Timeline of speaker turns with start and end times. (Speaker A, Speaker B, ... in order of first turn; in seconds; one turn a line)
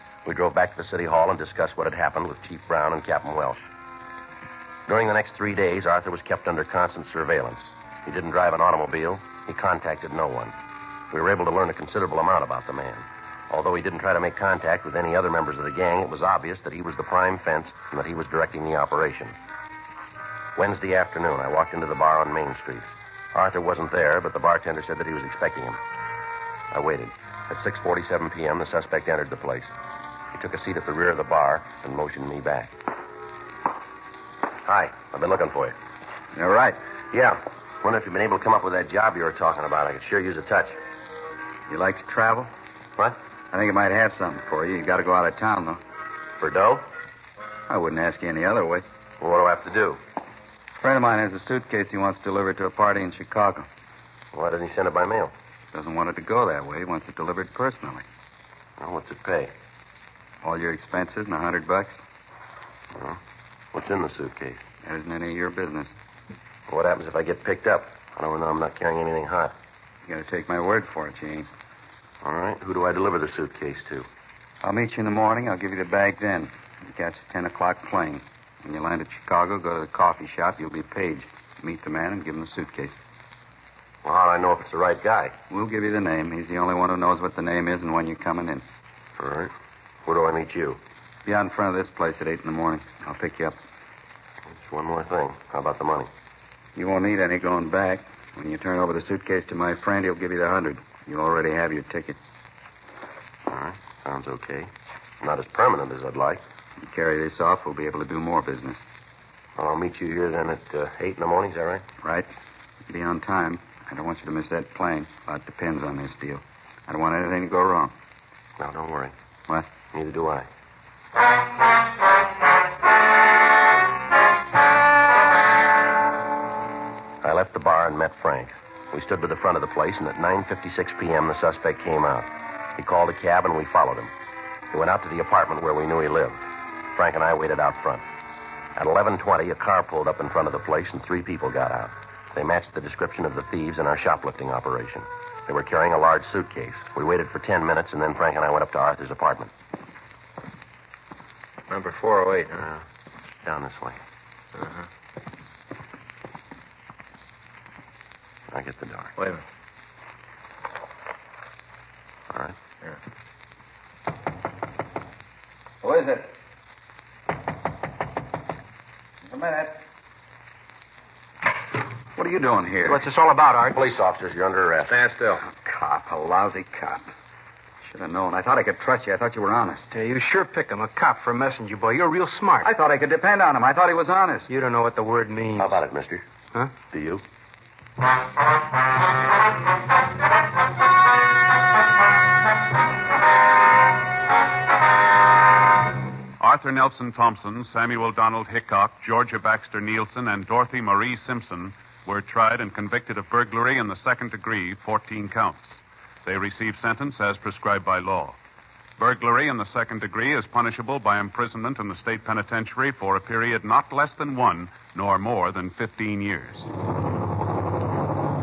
Speaker A: 0.2-3.6
Speaker A: 4.9-10.5
Speaker A: 11.1-19.4
Speaker A: 20.6-25.8
Speaker A: 26.7-29.7
Speaker A: 30.3-32.7
Speaker A: 34.6-35.8
Speaker B: 36.3-36.8
Speaker A: 37.1-40.8
Speaker B: 41.7-42.5
Speaker B: 43.5-45.8
Speaker A: 46.4-46.9
Speaker B: 47.7-48.8
Speaker A: 49.2-50.0
Speaker B: 50.8-53.7
Speaker A: 54.3-55.3
Speaker B: 55.7-58.0
Speaker A: 58.8-59.5
Speaker B: 60.4-62.0
Speaker A: 62.9-63.2
Speaker A: 63.7-64.6
Speaker B: 64.8-65.9
Speaker A: 66.7-69.5
Speaker B: 70.1-71.5
Speaker A: 72.2-74.1
Speaker B: 74.6-82.9
Speaker A: 84.0-85.3
Speaker B: 85.5-88.6
Speaker A: 89.2-89.5
Speaker A: 90.1-90.8
Speaker B: 91.2-93.6
Speaker A: 94.5-96.1
Speaker B: 96.8-102.2
Speaker A: 103.5-106.4
Speaker B: 106.8-108.8
Speaker A: 109.6-111.8
Speaker B: 112.0-112.3
Speaker B: 112.9-117.9
Speaker A: 118.6-119.1
Speaker A: 119.9-120.5
Speaker A: 127.2-134.1
Speaker A: 134.7-136.4
Speaker A: 136.9-138.1
Speaker A: 138.8-149.5
Speaker C: 151.7-152.7
Speaker A: 153.4-154.0
Speaker C: 154.6-154.8
Speaker A: 158.5-159.1
Speaker C: 159.2-159.4
Speaker A: 162.3-162.6
Speaker B: 165.8-166.3
Speaker B: 169.3-169.8
Speaker B: 172.2-173.0
Speaker D: 172.9-173.8
Speaker A: 173.7-174.9
Speaker C: 174.9-175.4
Speaker B: 175.4-177.1
Speaker B: 177.8-179.9
Speaker D: 179.9-182.7
Speaker B: 182.6-184.5
Speaker D: 184.5-185.7
Speaker A: 185.6-186.3
Speaker A: 186.8-187.2
Speaker E: 196.4-208.4
Speaker E: 209.0-216.7